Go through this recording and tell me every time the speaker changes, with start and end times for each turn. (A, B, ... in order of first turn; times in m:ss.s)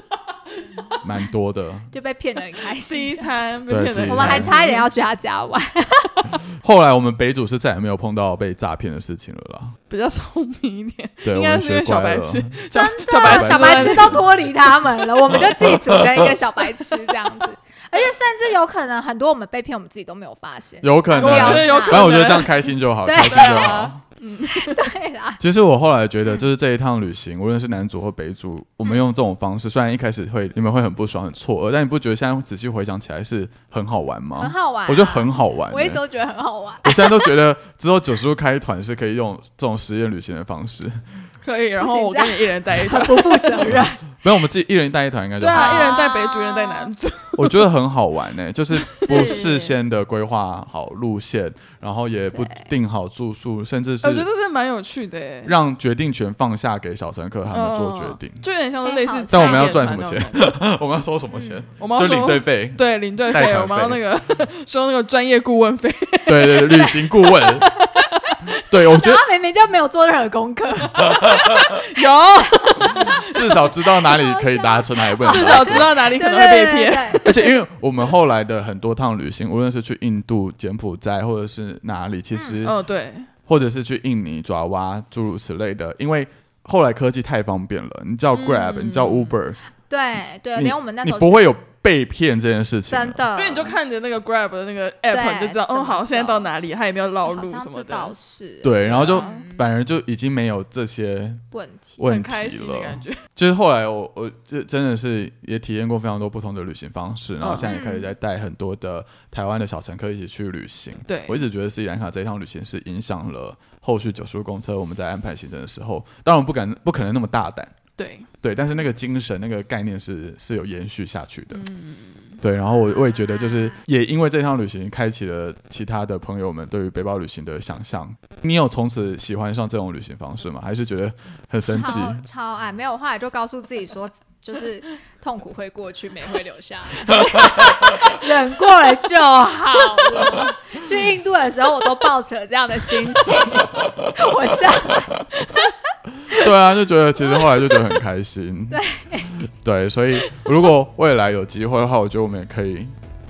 0:00.6-0:01.0 A
0:01.0-0:01.9 B
0:01.9-0:03.3 C
0:02.8-0:04.9 A
0:03.7-0:04.6 B
0:04.1-0:06.3 C
0:06.6-0:09.8 B
0:09.9-0:14.2 A
0:11.2-0:12.6 B
0:12.7-0:22.2 C
0:13.1-0:14.4 B
0:15.3-0:16.3 B
0:20.8-0:24.0 B
0:21.2-0:22.7 A
0:23.0-0:23.8 C
0:23.2-0:24.8 A
0:24.5-0:25.4 C
0:25.4-0:36.0 B
0:34.4-0:37.4 C
0:36.8-0:41.0 B
0:41.4-0:43.8 A
0:41.8-0:44.2 C
0:43.6-0:46.0 B
0:45.4-0:47.7 A
0:45.5-0:46.9 C
0:47.4-0:54.3 B
0:48.9-0:49.7 C
0:49.0-0:49.6 A
0:52.3-0:52.7 C
0:54.0-0:55.6 A
0:55.4-0:58.4 B
0:57.5-1:00.6 A
0:58.8-0:59.8 C
0:59.3-1:04.0 B
1:01.8-1:08.3 A
1:06.3-1:07.7 B
1:07.7-1:11.8 C
1:08.7-1:09.2 B
1:11.0-1:11.7 B
1:11.5-1:13.4 A
1:12.6-1:17.3 C
1:13.3-1:16.1 B
1:15.2-1:17.4 A
1:17.2-1:22.8 B
1:22.3-1:22.6 C
1:22.6-1:23.3 A
1:23.5-1:29.6 B
1:28.3-1:29.4 A
1:29.9-1:31.4 C
1:30.6-1:33.2 B
1:32.9-1:33.7 C
1:33.4-1:38.1 A
1:35.1-1:36.5 C
1:37.2-1:39.6 C
1:38.6-1:41.4 B
1:38.9-1:39.5 A
1:41.5-1:42.0 C
1:42.0-1:57.8 B
1:42.0-1:43.2 A
1:47.4-1:47.8 A
1:47.7-1:48.1 C
1:51.1-1:51.4 A
1:58.0-1:58.3 A
1:58.4-2:01.6 B
2:01.5-2:02.4 A
2:02.4-2:12.2 B
2:02.9-2:03.8 C
2:11.6-2:25.6 C
2:17.2-2:17.7 B
2:26.2-2:28.8 B
2:27.2-2:27.8 C
2:28.7-2:29.4 C
2:29.4-2:32.9 B